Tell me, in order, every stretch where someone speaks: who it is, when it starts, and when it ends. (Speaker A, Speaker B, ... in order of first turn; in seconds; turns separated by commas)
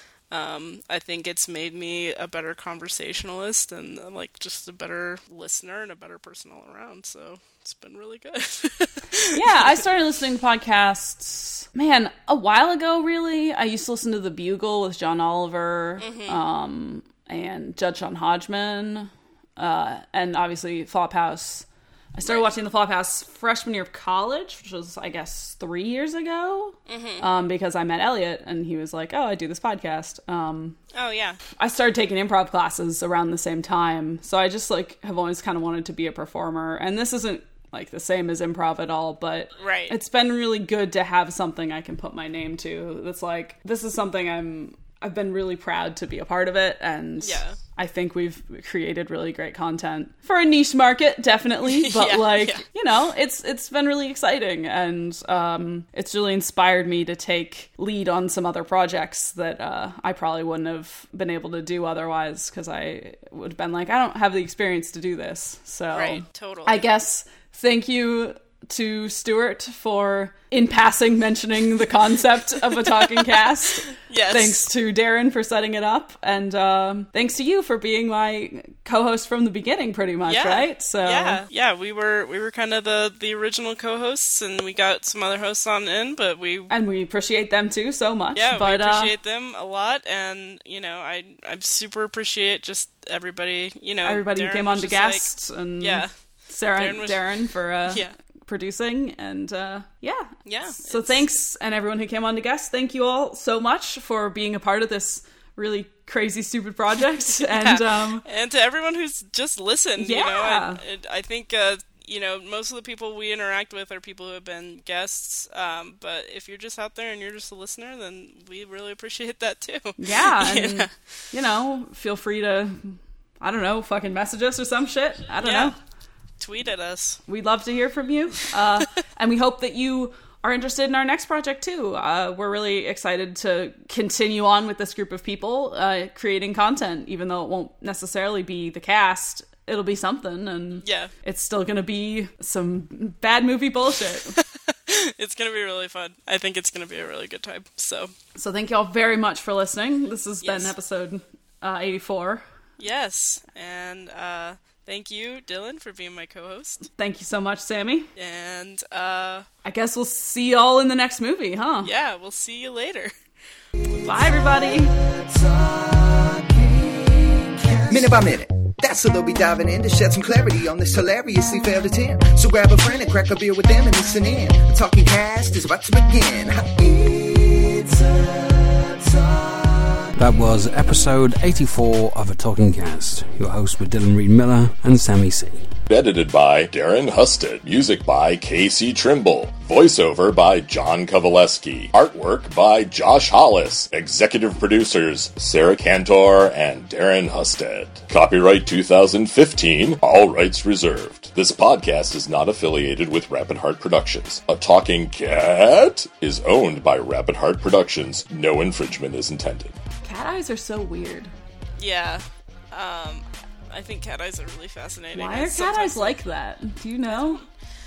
Speaker A: 0.3-9.7, Speaker B: 9.3-30.8, Speaker A: 16.0-16.4, Speaker A: 22.2-22.5, Speaker A: 26.9-27.3, Speaker A: 30.9-31.4, Speaker B: 31.6-81.4, Speaker A: 39.5-40.0, Speaker A: 47.2-47.6, Speaker A: 51.6-52.6, Speaker A: 65.9-66.8, Speaker A: 73.0-73.4, Speaker A: 74.0-74.6, Speaker A: 80.2-86.7, Speaker B: 86.7-89.1, Speaker A: 88.3-96.1, Speaker B: 94.0-108.2, Speaker A: 96.7-98.1, Speaker A: 100.5-101.3, Speaker A: 107.4-120.9, Speaker B: 110.0-110.8, Speaker B: 120.0-125.8, Speaker A: 125.4-125.7, Speaker A: 126.4-127.2, Speaker B: 127.3-144.4, Speaker A: 140.8-141.1, Speaker A: 144.4-148.1, Speaker B: 148.3-152.4, Speaker A: 150.4-150.7, Speaker A: 152.8-156.9, Speaker B: 156.9-158.1, Speaker A: 158.2-159.4, Speaker B: 159.6-161.9, Speaker A: 161.8-163.1, Speaker B: 164.0-164.9, Speaker C: 165.0-179.8, Speaker D: 180.2-185.7, Speaker E: 185.9-209.8, Speaker B: 210.0-211.3, Speaker A: 211.8-216.2, Speaker B: 215.1-217.4, Speaker A: 217.0-217.5